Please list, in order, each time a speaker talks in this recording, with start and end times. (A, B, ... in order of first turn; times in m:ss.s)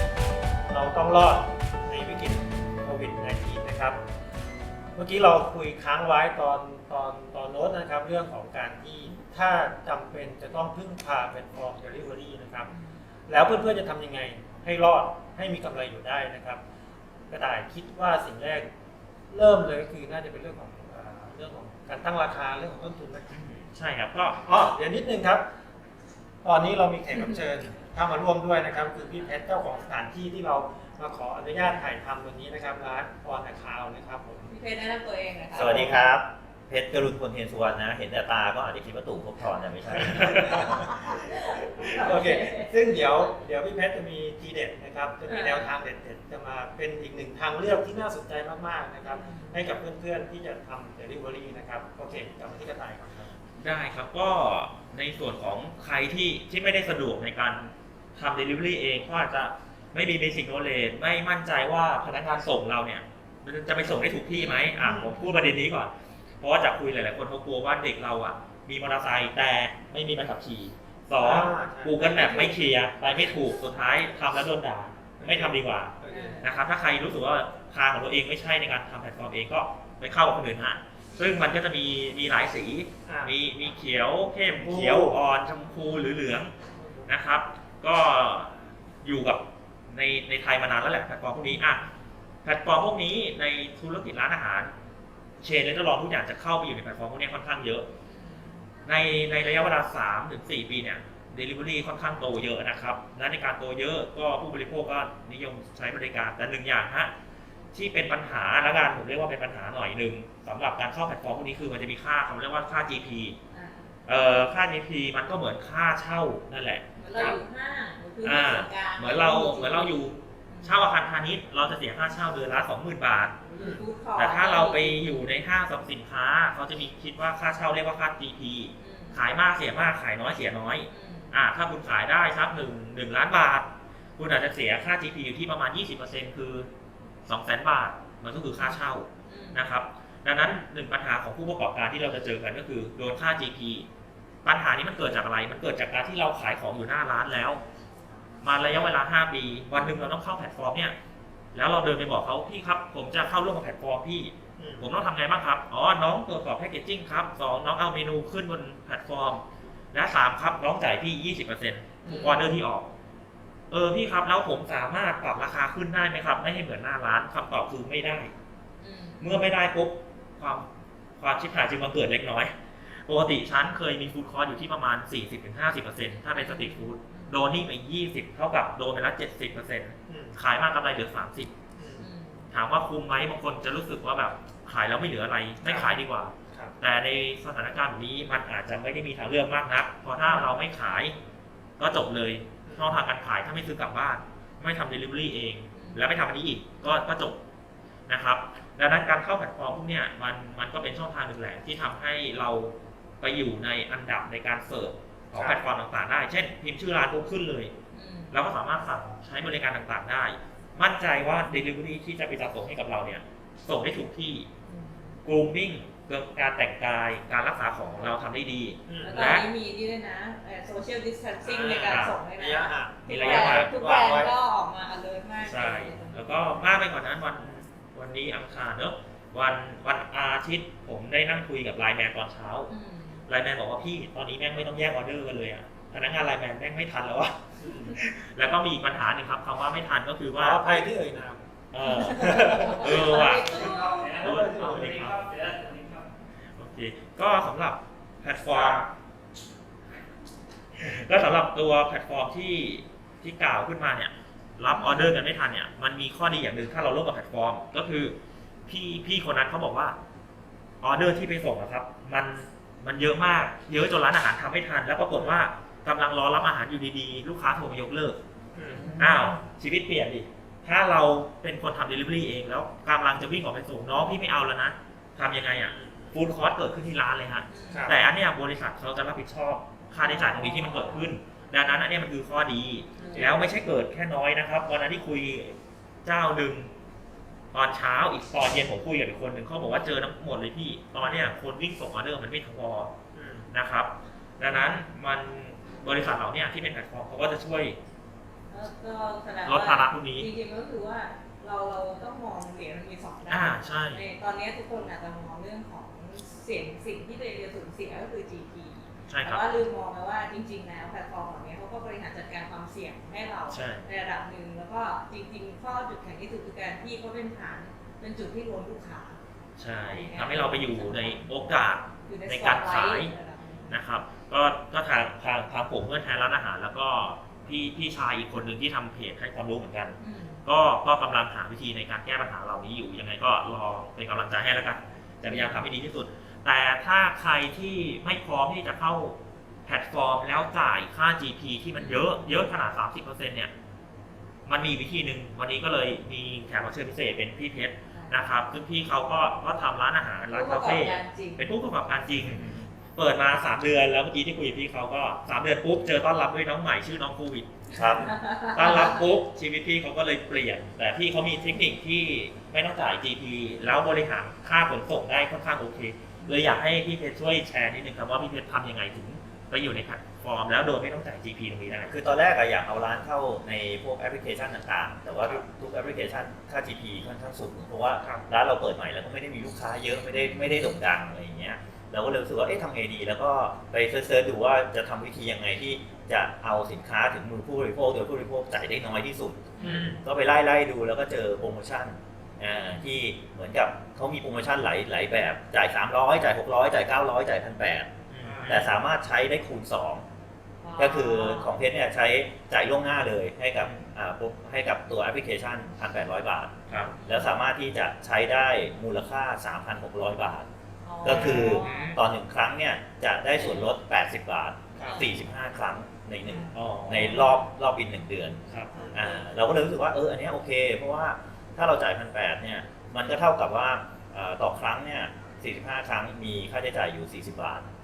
0:00.6-0:04.0 A
0:04.9-0:12.7 A
0:12.7-0:13.0 B
0:13.3-0:16.6 A
0:17.3-0:18.7 A
0:19.3-0:23.4 A
0:23.3-0:24.4 C
0:24.4-0:25.4 A
0:26.4-0:34.5 A
0:34.5-0:35.9 B
0:35.5-0:40.8 D
0:35.5-0:36.0 A
0:40.0-0:41.2 A
0:40.8-0:42.7 B
0:41.7-0:53.3 A
0:45.3-0:45.7 B
0:49.0-0:49.6 B
0:53.6-1:26.5 C
1:04.3-1:05.4 B
1:04.8-1:05.2 A
1:11.2-1:12.6 A
1:15.2-1:16.4 A
1:16.1-1:16.5 B
1:21.1-1:21.5 B
1:23.0-1:23.3 A
1:24.4-1:25.2 A
1:26.8-1:27.1 A
1:27.0-1:31.8 C
1:32.4-1:34.7 C
1:35.4-1:37.9 C
1:38.0-1:38.6 B
1:38.8-1:47.1 C
1:47.7-1:53.4 C
1:53.5-1:53.9 B
1:54.0-1:57.4 C
1:57.0-2:00.8 B
1:58.2-2:03.4 C
2:03.4-2:05.1 B
2:04.2-2:16.7 C
2:08.8-2:09.2 B
2:10.9-2:11.3 B
2:17.2-2:23.9 C
2:18.4-2:19.7 B
2:24.4-2:27.6 C
2:28.4-2:31.0 C
2:29.8-2:30.0 B
2:31.5-2:42.9 C
2:34.6-2:34.9 A
2:42.0-2:42.6 B
2:43.7-2:48.3 C
2:48.8-2:49.3 B
2:49.2-3:01.5 C
2:56.3-2:57.4 B
3:00.1-3:00.4 A
3:01.7-3:02.1 A
3:02.0-3:02.5 B
3:02.5-3:11.2 C
3:05.6-3:06.7 A
3:11.8-3:17.4 C
3:12.6-3:13.0 A
3:15.7-3:16.1 B
3:18.1-3:27.7 C
3:25.3-3:25.6 A
3:27.9-3:28.4 B
3:28.3-3:34.5 C
3:34.6-3:35.2 B
3:35.2-3:39.5 C
3:38.9-3:39.3 A
3:39.0-3:46.8 B
3:41.4-3:44.3 A
3:41.8-3:42.2 C
3:43.1-3:43.7 C
3:45.4-3:52.7 C
3:52.7-3:53.3 B
3:53.3-4:00.7 C
4:00.4-4:01.4 A
4:01.7-4:05.3 C
4:01.8-4:04.4 B
4:02.0-4:06.0 A
4:06.6-4:08.9 C
4:08.5-4:08.8 A
4:10.7-4:20.0 C
4:14.7-4:15.2 B
4:20.8-4:28.2 C
4:25.1-4:25.5 A
4:28.5-4:29.1 A
4:28.7-4:29.4 B
4:29.0-4:46.7 C
4:35.5-4:36.2 A
4:37.5-4:38.0 B
4:37.7-4:38.0 A
4:40.0-4:41.1 B
4:43.0-4:43.5 B
4:43.0-4:43.4 A
4:47.5-4:52.9 C
4:51.0-4:51.3 A
4:53.1-4:53.5 A
4:53.5-4:57.8 C
4:58.5-5:19.2 B
4:59.4-5:00.3 C
5:03.3-5:04.0 C
5:09.1-5:09.4 C
5:13.5-5:13.9 C
5:19.6-5:23.1 C
5:19.8-5:21.2 B
5:22.0-5:23.8 B
5:23.7-5:43.5 C
5:30.0-5:30.4 B
5:35.3-5:35.7 B
5:41.8-5:42.2 B
5:44.4-5:57.7 C
5:47.9-5:48.2 B
5:50.3-5:51.5 B
5:52.2-5:52.7 D
5:57.7-5:58.1 D
5:58.0-5:59.0 B
5:58.5-6:11.9 C
6:06.2-6:06.4 B
6:11.9-6:37.9 D
6:20.1-6:20.6 B
6:29.6-6:29.9 B
6:29.6-6:30.0 A
6:29.6-6:30.0 C
6:32.5-6:32.9 B
6:38.1-6:38.7 C
6:38.2-6:38.6 A
6:38.4-6:40.0 D
6:40.6-6:41.5 B
6:40.8-6:50.5 D
6:46.7-6:46.9 C
6:46.8-6:47.3 B
6:50.8-6:52.0 B
6:51.0-7:07.7 D
6:51.0-6:52.0 C
6:53.3-6:53.7 B
6:54.8-6:55.0 A
6:54.8-6:55.1 B
6:56.2-6:57.4 B
6:56.5-6:57.3 C
6:58.7-6:59.0 A
6:58.7-6:59.3 B